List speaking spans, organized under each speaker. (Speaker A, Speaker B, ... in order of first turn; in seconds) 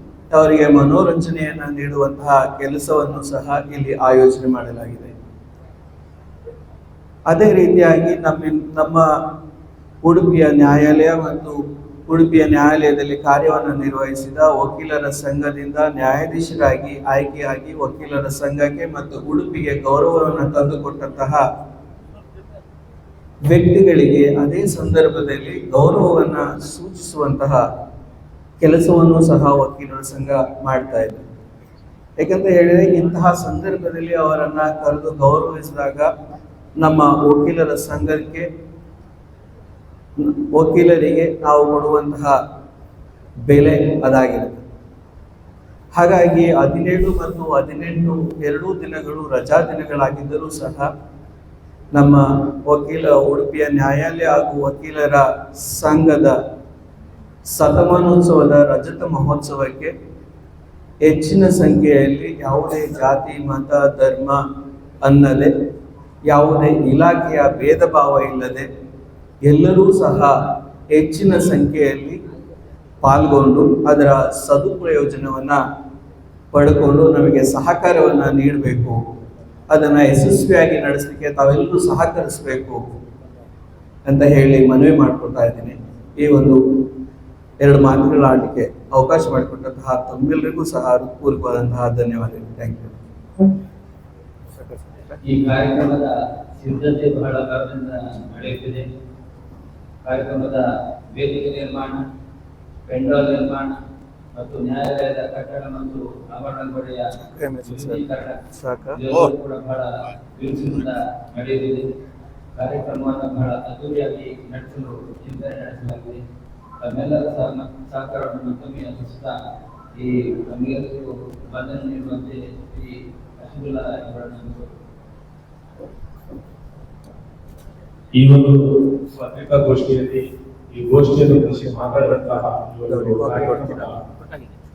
Speaker A: 0.3-5.2, 7.3-9.3, 10.0-21.4, 23.4-27.7, 28.6-31.2, 32.2-36.1, 36.8-38.5, 40.2-42.4, 43.5-44.6, 45.9-50.9, 51.9-56.4, 57.5-59.9, 61.0-64.4, 65.0-65.5, 66.3-68.7, 69.4-72.2, 73.0-75.6, 76.5-79.0, 79.7-82.8, 84.1-86.9, 87.6-92.9, 107.3-109.2, 132.9-133.9
Speaker B: 95.2-98.9, 100.0-102.0, 102.9-103.8, 104.3-108.4, 108.9-111.9, 112.5-116.2, 116.8-119.4, 119.9-124.7
Speaker C: 128.1-134.0